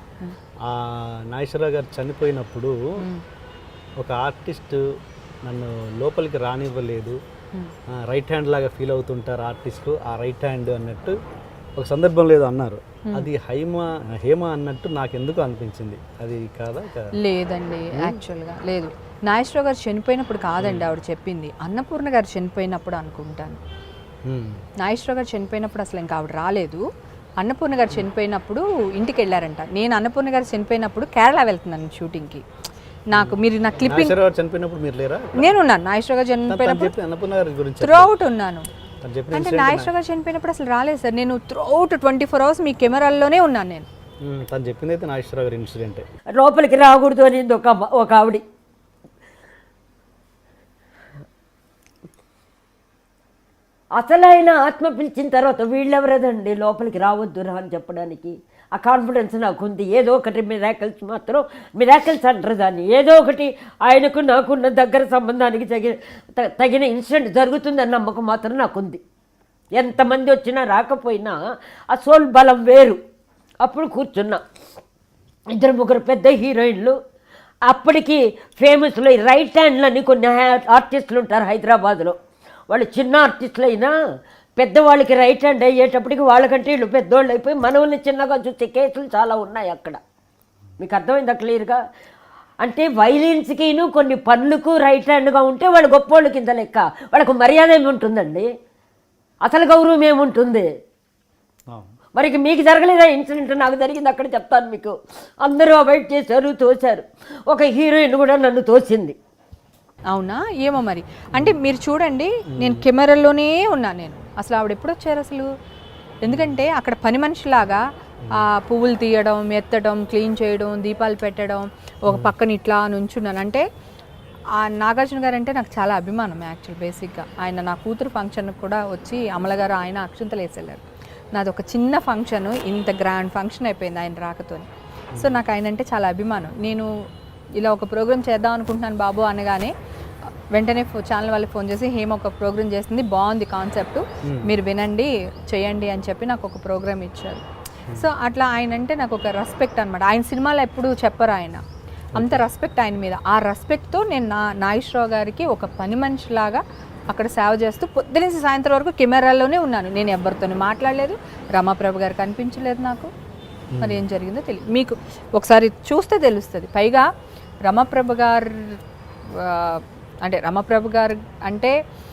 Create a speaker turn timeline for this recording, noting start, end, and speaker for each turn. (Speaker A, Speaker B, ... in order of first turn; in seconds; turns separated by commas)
Speaker A: 0.6-2.8, Speaker A: 4.0-4.8, Speaker A: 5.4-7.2, Speaker A: 8.0-11.2, Speaker A: 11.8-17.1, Speaker B: 17.2-23.6, Speaker A: 20.6-20.9, Speaker A: 24.3-24.6, Speaker B: 24.8-26.8, Speaker B: 27.4-32.4, Speaker B: 33.1-34.2, Speaker A: 33.1-35.5, Speaker B: 35.4-36.9, Speaker A: 36.5-38.1, Speaker B: 37.8-38.7, Speaker A: 39.0-39.9, Speaker B: 39.3-43.9, Speaker A: 44.2-46.0, Speaker C: 46.3-48.4, Speaker C: 53.9-69.0, Speaker C: 69.7-71.4, Speaker C: 71.9-73.0, Speaker C: 73.6-74.4, Speaker C: 75.5-76.9, Speaker C: 77.7-82.2, Speaker C: 82.7-83.9, Speaker C: 84.6-90.0, Speaker C: 90.8-91.8, Speaker C: 92.6-98.5, Speaker C: 99.4-100.7, Speaker C: 102.2-109.2, Speaker B: 110.1-115.5, Speaker A: 112.5-112.8, Speaker B: 116.2-117.8, Speaker A: 116.3-116.6, Speaker B: 118.3-123.6, Speaker B: 124.5-130.8, Speaker B: 131.3-136.9, Speaker A: 135.1-135.4, Speaker B: 137.6-139.7, Speaker B: 140.5-147.4, Speaker A: 144.2-144.5, Speaker B: 147.9-151.6, Speaker A: 152.1-152.4, Speaker B: 152.2-163.1, Speaker A: 163.7-164.0, Speaker B: 163.8-167.1, Speaker B: 167.7-168.8, Speaker B: 169.3-171.7